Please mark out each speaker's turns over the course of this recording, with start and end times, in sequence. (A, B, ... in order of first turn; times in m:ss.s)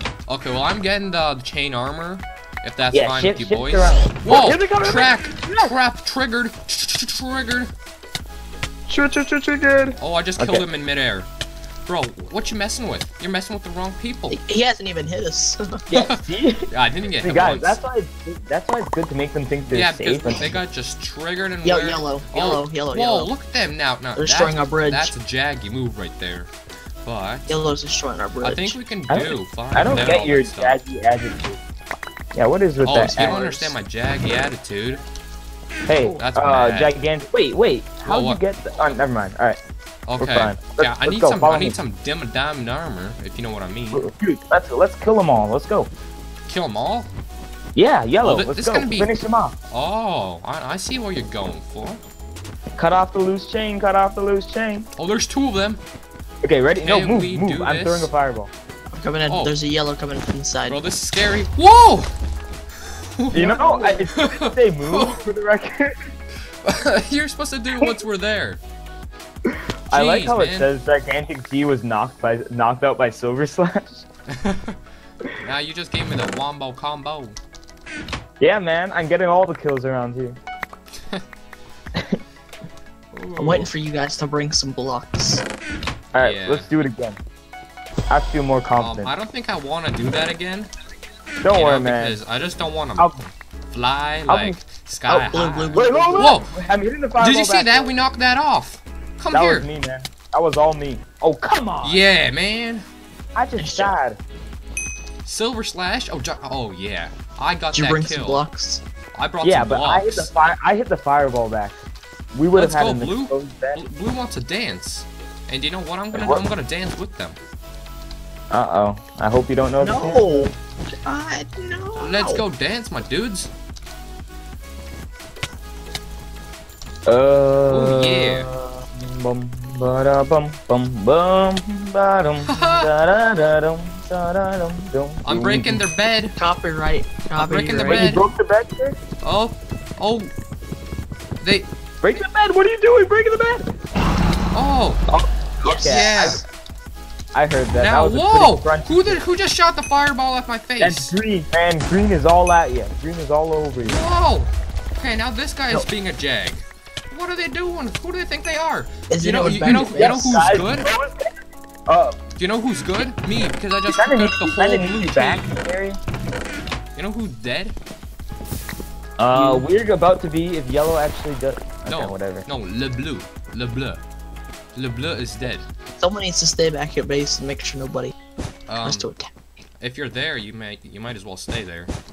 0:00.3-0:07.7 A
0:02.9-0:05.7 B
0:08.9-0:10.7 B
0:10.0-0:11.3 A
0:11.9-0:14.4 A
0:14.3-0:15.8 C
0:15.9-0:16.7 B
0:15.9-0:17.8 A
0:17.2-0:20.6 B
0:19.7-0:26.5 A
0:21.6-0:23.3 C
0:24.2-0:25.1 C
0:27.0-0:27.6 A
0:27.5-0:28.8 C
0:28.4-0:30.8 A
0:29.1-0:31.6 B
0:32.3-0:33.5 B
0:32.8-0:35.0 A
0:32.9-0:33.7 C
0:35.9-0:39.6 B
0:36.0-0:36.9 A
0:38.1-0:38.4 A
0:40.1-0:44.1 A
0:40.2-0:41.8 B
0:43.9-0:45.9 B
0:46.5-0:47.1 A
0:47.8-0:49.6 B
0:48.2-0:49.1 A
0:49.7-0:52.0 A
0:52.8-0:54.9 B
0:55.0-0:55.8 A
0:56.4-0:58.5 B
0:56.8-0:58.1 A
0:58.9-1:00.8 C
0:59.3-0:59.5 A
1:00.7-1:02.1 A
1:03.2-1:05.2 A
1:03.3-1:06.1 B
1:06.6-1:08.6 A
1:09.5-1:14.1 B
1:09.9-1:10.7 A
1:14.3-1:14.8 A
1:15.4-1:17.4 A
1:18.4-1:20.4 B
1:22.0-1:22.2 B
1:23.1-1:23.7 A
1:23.4-1:25.4 C
1:26.1-1:27.2 B
1:26.2-1:26.7 A
1:28.1-1:29.1 B
1:28.8-1:30.7 A
1:31.4-1:32.2 B
1:31.5-1:36.5 A
1:33.0-1:33.3 B
1:34.3-1:34.6 B
1:35.1-1:36.3 C
1:35.8-1:37.9 B
1:37.2-1:39.7 A
1:39.3-1:42.0 B
1:41.8-1:42.9 A
1:43.4-1:44.2 B
1:43.6-1:44.0 C
1:45.2-1:48.4 A
1:47.7-1:48.8 C
1:49.2-1:50.3 A
1:49.4-1:53.8 B
1:52.5-1:57.4 A
1:56.1-1:56.4 B
1:58.5-2:00.5 B
1:59.8-2:02.4 C
2:02.0-2:03.5 A
2:07.1-2:15.8 B
2:07.7-2:08.5 A
2:12.4-2:12.9 A
2:15.2-2:16.4 A
2:16.4-2:18.1 C
2:17.4-2:18.2 A
2:17.9-2:19.0 B
2:19.2-2:20.3 A
2:21.4-2:21.7 A
2:22.0-2:23.7 B
2:24.5-2:25.0 A
2:25.1-2:26.4 B
2:25.6-2:26.4 C
2:25.8-2:26.4 A
2:27.3-2:29.2 B
2:27.8-2:31.2 A
2:30.8-2:34.0 B
2:33.8-2:40.9 A
2:39.1-2:40.4 C
2:39.6-2:42.2 B
2:42.4-2:45.4 A
2:43.9-2:46.0 B
2:47.0-2:47.7 A
2:49.2-2:52.5 B
2:49.3-2:49.6 C
2:51.9-2:54.0 A
2:54.8-2:55.7 A
2:56.0-2:58.1 C
2:58.7-2:59.1 A
2:58.8-2:59.3 C
2:59.8-3:01.9 A